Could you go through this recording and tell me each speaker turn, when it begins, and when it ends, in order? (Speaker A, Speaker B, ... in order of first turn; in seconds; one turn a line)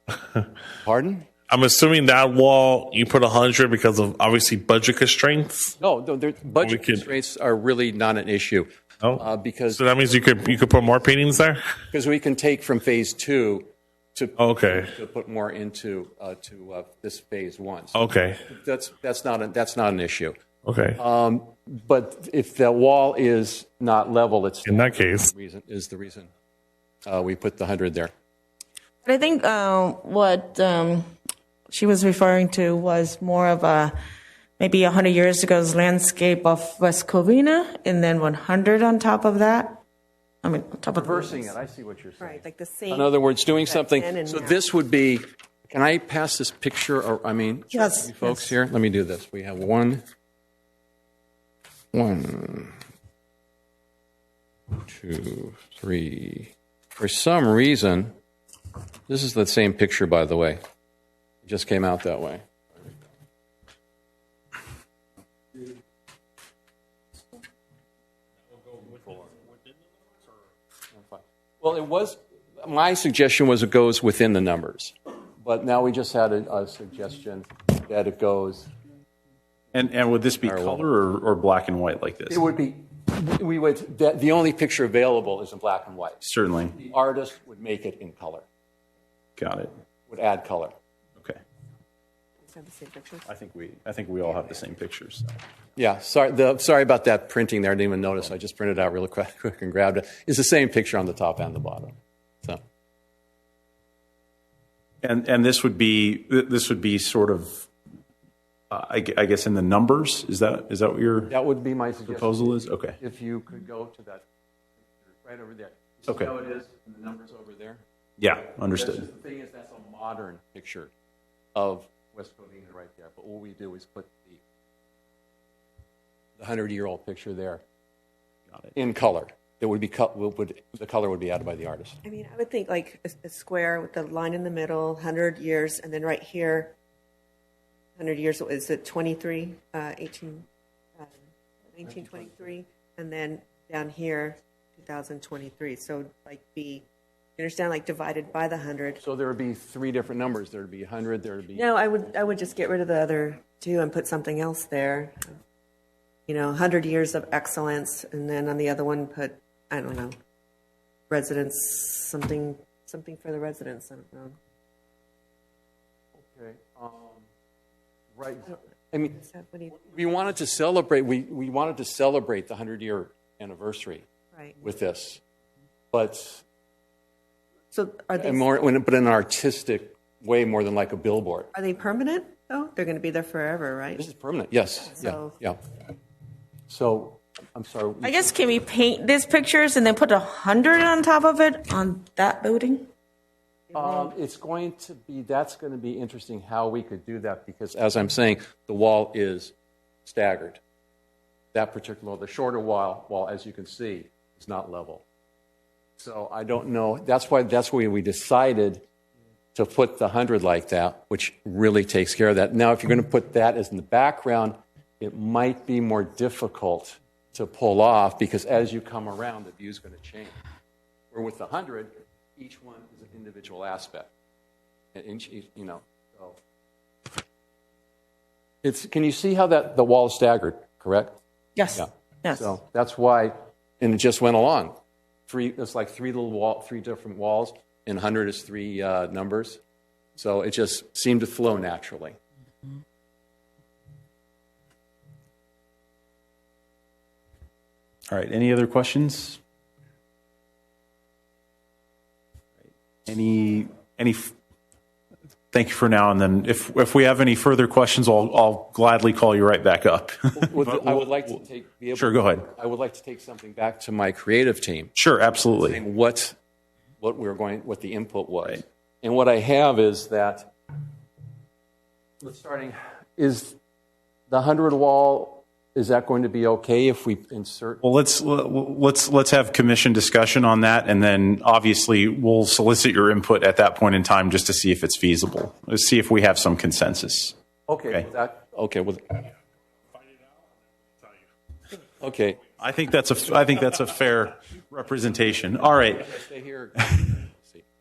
Speaker A: 0.2-0.5
Speaker B: 0.8-1.3
Speaker A: 1.5-5.8
Speaker B: 5.8-9.8
Speaker A: 6.6-7.1
Speaker A: 9.0-11.6
Speaker B: 11.9-20.4
Speaker A: 14.4-14.9
Speaker A: 17.9-18.4
Speaker A: 20.6-21.0
Speaker B: 21.0-26.3
Speaker A: 24.7-25.3
Speaker B: 27.1-28.1
Speaker C: 29.0-31.1
Speaker C: 31.7-33.9
Speaker C: 34.6-39.8
Speaker C: 40.4-41.5
Speaker B: 40.9-50.0
Speaker D: 42.2-44.7
Speaker C: 47.7-48.5
Speaker B: 51.9-52.8
Speaker B: 54.8-58.1
Speaker B: 59.1-60.6
Speaker B: 61.4-62.5
Speaker B: 68.7-69.4
Speaker B: 70.9-78.7
Speaker E: 79.7-82.5
Speaker B: 80.4-80.8
Speaker B: 82.3-88.5
Speaker E: 86.2-86.8
Speaker E: 89.4-89.7
Speaker B: 90.1-90.8
Speaker D: 92.4-93.3
Speaker E: 93.3-95.4
Speaker B: 95.8-102.6
Speaker E: 105.0-107.7
Speaker E: 108.7-111.3
Speaker B: 111.3-114.2
Speaker E: 112.1-113.0
Speaker B: 114.8-117.8
Speaker E: 118.2-119.1
Speaker B: 118.7-120.9
Speaker B: 121.5-124.4
Speaker B: 126.4-127.6
Speaker E: 128.5-128.8
Speaker B: 128.8-132.0
Speaker D: 132.0-136.8
Speaker D: 138.0-140.5
Speaker D: 141.7-146.9
Speaker B: 142.0-142.3
Speaker D: 147.4-149.0
Speaker B: 149.0-151.7
Speaker D: 151.6-155.4
Speaker D: 156.3-160.2
Speaker D: 161.1-164.4
Speaker B: 166.2-167.3
Speaker B: 168.2-169.2
Speaker D: 169.2-170.0
Speaker B: 169.8-174.1
Speaker B: 174.6-175.2
Speaker B: 175.9-176.4
Speaker D: 177.7-178.5
Speaker B: 178.2-181.5
Speaker D: 181.5-184.0
Speaker B: 183.9-185.6
Speaker D: 184.9-185.4
Speaker B: 186.7-188.4
Speaker C: 188.0-192.9
Speaker B: 193.7-200.6
Speaker B: 201.5-205.0
Speaker B: 206.0-208.8
Speaker B: 209.5-220.4
Speaker B: 221.1-224.1
Speaker B: 224.9-226.4
Speaker B: 228.6-231.2
Speaker C: 231.6-232.5
Speaker B: 231.8-239.6
Speaker B: 240.2-242.2
Speaker E: 248.1-249.4
Speaker E: 253.1-254.4
Speaker E: 255.5-261.3
Speaker B: 260.3-264.9
Speaker E: 261.9-262.5
Speaker E: 265.0-265.8
Speaker B: 265.6-266.4
Speaker B: 267.0-270.5
Speaker B: 272.2-273.6
Speaker B: 274.3-277.8
Speaker E: 277.8-287.4
Speaker B: 287.7-289.3
Speaker B: 292.0-292.4
Speaker E: 292.6-296.1
Speaker B: 296.0-297.6